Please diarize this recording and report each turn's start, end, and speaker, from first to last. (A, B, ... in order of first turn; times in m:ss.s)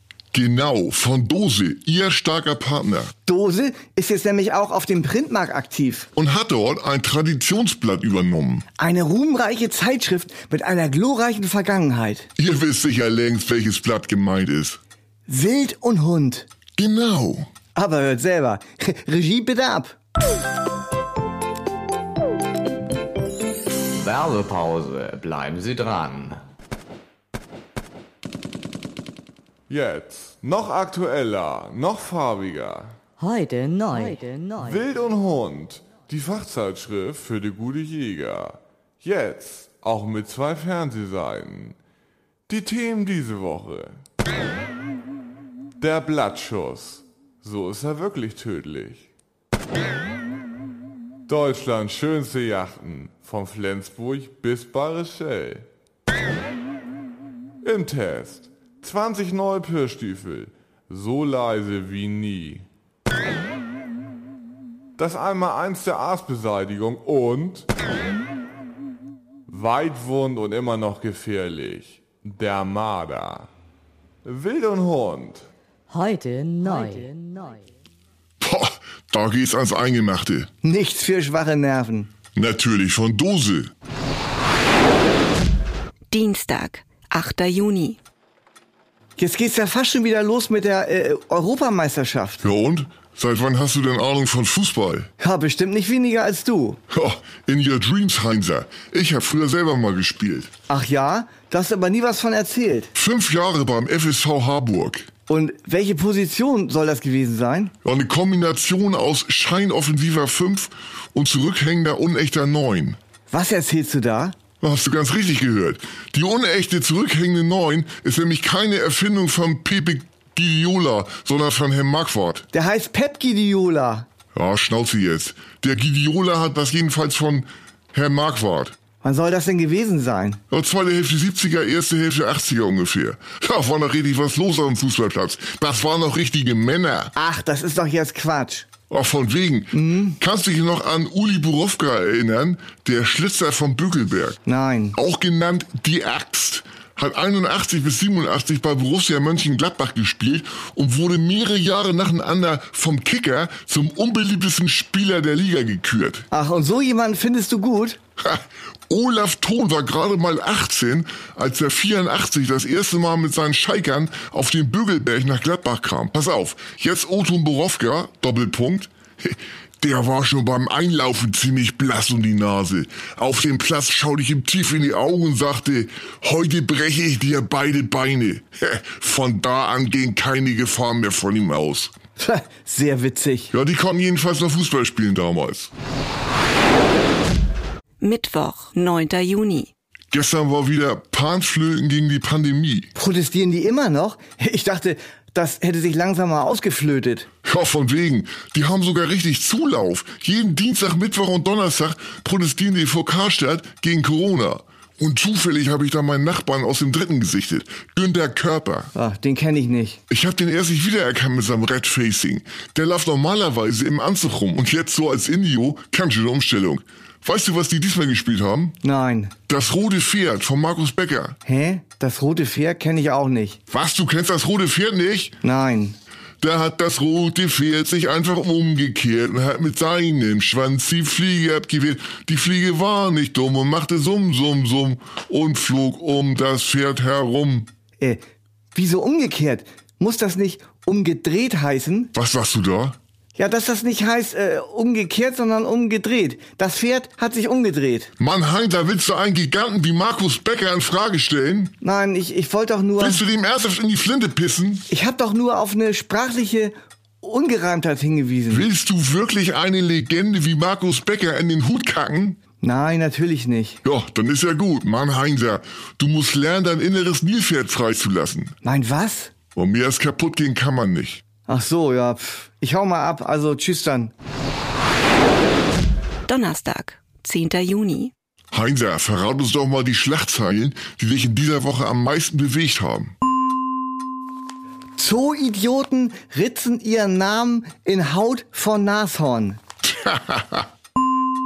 0:00.3-0:03.1 A
0:03.2-0:06.1 B
0:06.2-0:08.6 A
0:08.8-0:12.3 B
0:12.4-0:14.8 A
0:15.3-0:16.5 B
0:16.8-0:17.5 A
0:17.7-0:20.0 B
0:24.0-0:26.4 C
0:29.7-0:33.0 D
0:33.2-0:34.8 E
0:34.2-0:41.8 D
0:42.5-0:44.0 D
0:45.8-0:49.1 D
0:51.3-0:55.7 D
0:57.6-1:02.7 D
1:05.0-1:07.7 D
1:09.5-1:13.5 D
1:14.2-1:15.4 D
1:15.9-1:17.6 E
1:18.4-1:20.5 A
1:20.6-1:22.1 B
1:22.3-1:23.7 A
1:26.1-1:28.0 F
1:29.2-1:32.4 B
1:32.4-1:35.1 A
1:35.2-1:36.8 B
1:36.9-1:40.5 A
1:40.7-1:42.9 B
1:43.0-1:45.1 A
1:45.3-1:47.7 B
1:47.8-1:53.0 A
1:53.3-1:54.3 B
1:54.6-2:02.4 A
2:02.5-2:04.1 B
2:04.3-2:08.7 A
2:09.0-2:10.4 B
2:10.5-2:17.1 A
2:17.2-2:18.7 B
2:18.9-2:24.4 A
2:19.7-2:20.2 B
2:24.4-2:25.0 B
2:25.0-2:36.2 A
2:36.3-2:38.0 B
2:38.2-3:01.9 A
3:02.2-3:03.5 B
3:03.5-3:05.7 A
3:08.0-3:09.7 F
3:10.1-3:12.9 A
3:13.0-3:17.3 B
3:17.4-3:28.9 A
3:28.9-3:30.0 B
3:30.1-3:38.8 A
3:38.8-3:39.3 B
3:39.5-3:41.4 A
3:41.4-3:43.6 B
3:43.7-3:45.3 A
3:45.4-3:46.0 B
3:46.4-3:57.7 A
3:58.7-4:02.1 B
4:02.1-4:03.0 A
4:03.4-4:08.1 B
4:08.2-4:11.7 A
4:11.8-4:13.2 B
4:13.0-4:14.8 A
4:14.9-4:18.7 B
4:18.5-4:22.4 A
4:22.6-4:23.8 B
4:23.8-4:28.5 A
4:28.6-4:29.3 B
4:29.6-4:31.2 A
4:31.5-4:34.1 B
4:36.3-4:38.1 F
4:38.5-4:43.1 A
4:45.0-4:49.6 B
4:50.0-4:50.4 A